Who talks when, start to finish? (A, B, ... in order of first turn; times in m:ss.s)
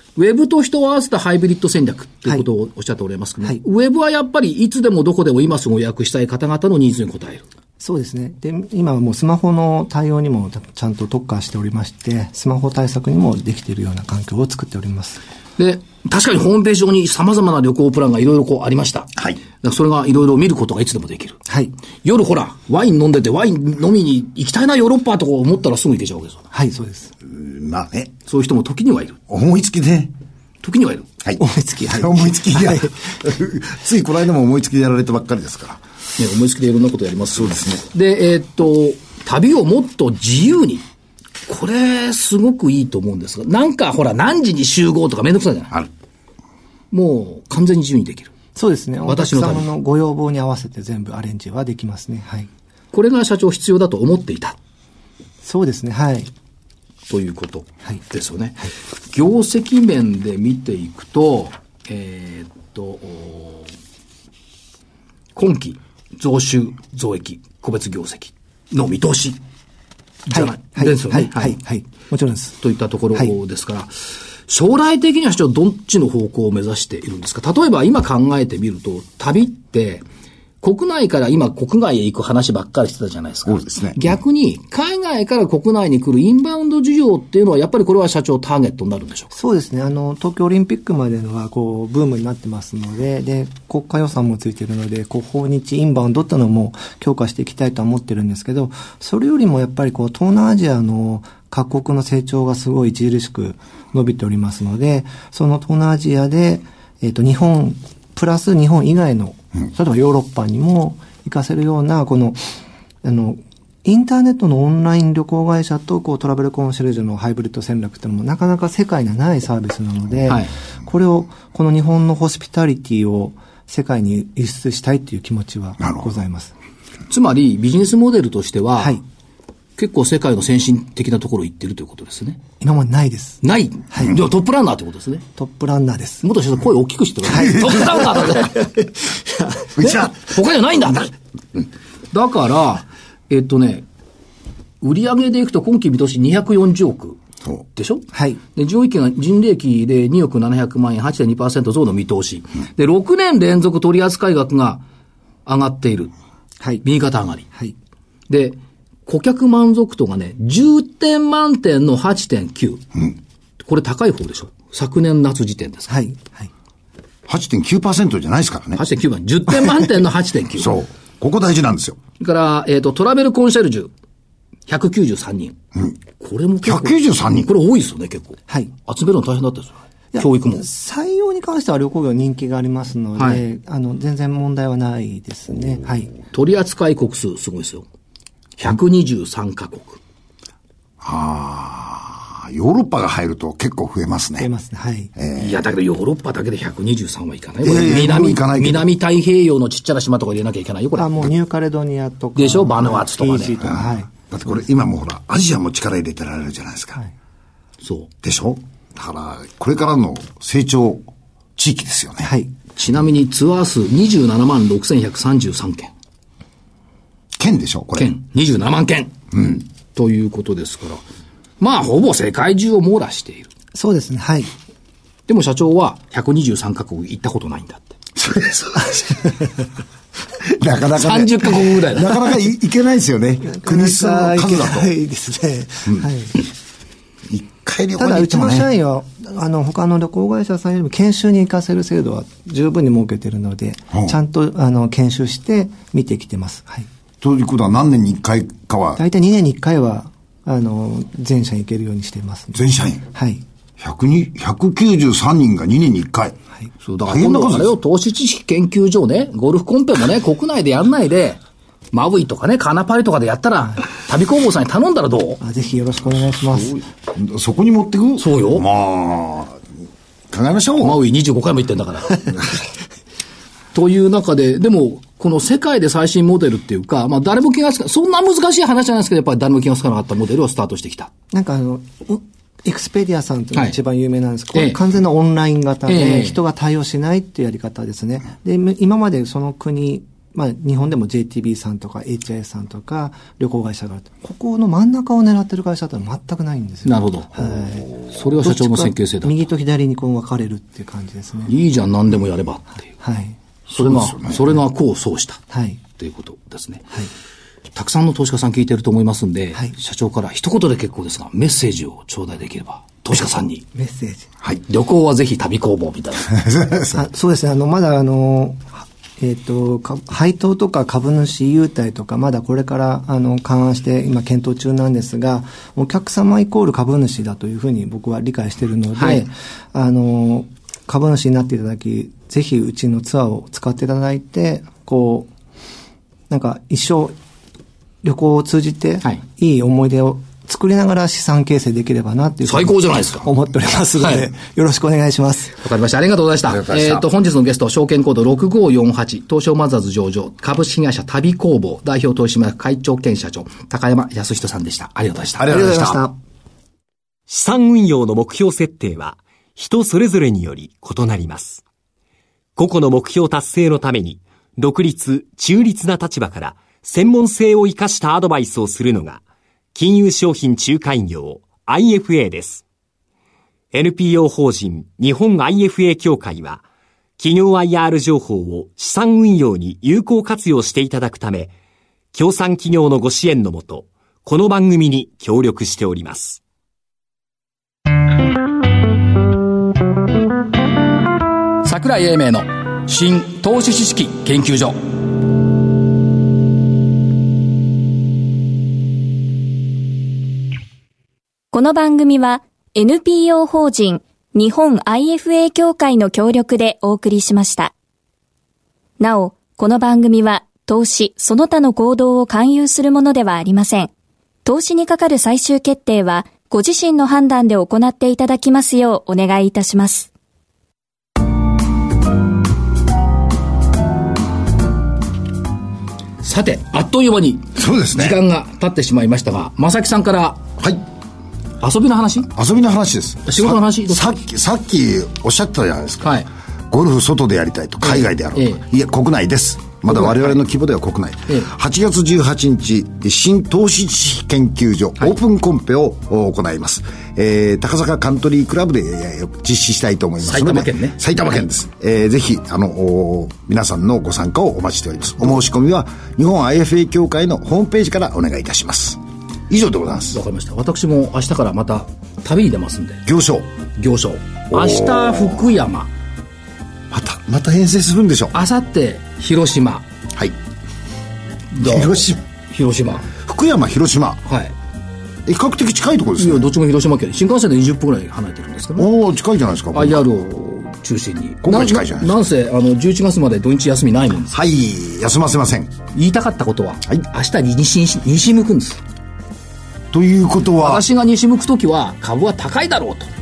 0:00.2-0:07.4 A
0:07.8-0:15.2 B
0:15.6-0:21.4 A
0:22.0-0:26.4 A
0:26.5-0:27.1 B
0:27.3-0:28.1 C
0:28.3-0:29.2 A
0:29.3-0:30.1 C
0:30.6-0:31.1 A
0:31.2-0:35.8 C
0:31.4-0:33.0 B
0:36.2-0:40.8 A
0:37.3-0:37.8 C
0:41.5-0:45.8 A
0:46.9-0:48.3 A
0:48.6-0:52.5 B
0:49.1-0:49.7 A
0:52.9-0:54.6 A
0:55.4-0:56.3 B
0:57.1-1:03.7 A
1:05.4-1:09.4 A
1:10.3-1:11.6 A
1:10.3-1:12.6 B
1:12.6-1:20.0 A
1:20.6-1:29.3 A
1:23.5-1:24.0 C
1:29.3-2:06.5 B
2:07.1-2:09.0 A
2:09.8-2:12.4 A
2:12.6-2:14.2 B
2:13.4-2:15.2 A
2:15.4-2:16.2 B
2:16.2-2:18.7 A
2:17.3-2:19.7 B
2:19.8-2:20.2 C
2:19.9-2:21.1 A
2:22.1-2:23.9 A
2:24.8-2:27.2 A
2:27.8-2:34.8 A
2:28.1-2:28.4 B
2:35.5-2:36.1 A
2:36.8-2:37.5 A
2:38.3-2:42.9 A
2:43.6-2:46.0 A
2:45.9-2:46.5 B
2:47.3-2:48.8 C
2:48.8-2:50.8 A
2:50.6-2:52.0 C
2:52.2-2:53.9 A
2:54.7-2:55.6 A
2:56.2-3:00.7 A
2:56.6-2:57.5 C
3:00.1-3:06.1 B
3:03.2-3:03.4 A
3:06.3-3:07.9 A
3:08.6-3:10.0 A
3:11.0-3:14.5 C
3:14.4-3:15.1 B
3:15.2-3:15.6 C
3:15.4-3:21.2 A
3:17.6-3:18.9 C
3:21.0-3:24.5 B
3:22.4-3:23.6 A
3:23.6-3:27.0 C
3:27.8-3:28.1 A
3:28.2-3:32.3 C
3:32.2-3:32.5 B
3:32.8-3:35.9 A
3:37.4-3:38.1 C
3:38.0-3:39.2 A
3:39.9-3:41.0 A
3:41.6-3:43.5 A
3:43.7-3:44.5 B
3:45.3-3:48.0 A
3:48.2-3:49.5 C
3:49.2-3:49.5 B
3:50.4-3:54.9 C
3:51.0-3:52.2 A
3:53.4-3:56.4 B
3:57.3-3:58.7 C
3:58.0-4:06.9 B
4:07.2-4:09.0 C
4:09.0-4:13.4 B
4:12.5-4:13.0 C
4:13.8-4:16.4 C
4:16.8-4:21.4 A
4:17.1-4:17.7 C
4:21.9-4:25.4 A
4:25.4-4:26.8 B
4:26.8-4:29.6 C
4:28.2-4:28.6 A
4:30.3-4:31.0 C
4:30.8-4:32.3 A
4:33.7-4:41.1 A
4:41.3-5:01.5 B
4:44.5-4:44.8 A
4:45.9-4:46.4 A
4:56.8-4:57.6 A
4:58.1-4:59.4 A
5:01.5-5:02.9 A
5:03.0-5:03.4 B
5:03.7-5:05.4 A
5:03.8-5:04.4 C
5:05.5-5:05.8 B
5:06.0-5:06.9 A
5:07.7-5:13.6 A
5:13.7-5:14.3 B
5:14.6-5:16.4 A
5:16.4-5:17.0 C
5:16.9-5:35.3 B
5:29.0-5:29.2 A
5:36.3-5:37.2 B
5:38.0-5:45.6 B
5:42.4-5:43.3 A
5:45.6-5:55.5 A
5:46.5-5:47.1 C
5:55.4-5:56.0 C
5:55.5-5:56.2 B
5:57.3-6:01.6 D
6:02.6-6:09.2 D
6:09.7-6:12.6 D
6:13.7-6:16.6 D
6:17.2-6:21.5 D
6:22.1-6:26.4 D
6:31.6-6:34.8 A
6:41.5-6:47.7 E
6:49.0-6:53.9 E
6:54.4-7:00.1 E
7:06.2-7:10.5 A
7:07.6-7:08.2 C
7:11.6-7:12.3 A
7:12.3-7:40.2 C
7:13.3-7:14.2 A
7:16.0-7:16.3 A
7:17.8-7:18.6 A
7:19.9-7:20.4 A
7:30.2-7:31.0 A
7:40.1-7:43.0 A
7:43.1-7:43.5 C
7:43.8-7:45.9 A
7:44.5-7:45.5 C
7:46.9-7:48.3 C
7:48.3-7:49.9 A
7:51.5-7:53.1 A
7:51.6-7:52.2 C
7:53.1-7:54.2 C
7:54.3-7:54.5 A
7:55.3-7:56.5 C
7:56.2-7:58.9 A
7:58.8-8:00.0 C
7:59.7-8:04.4 A
8:01.4-8:02.2 C
8:04.3-8:05.7 C
8:05.9-8:08.8 A
8:09.9-8:10.8 C
8:10.6-8:13.1 A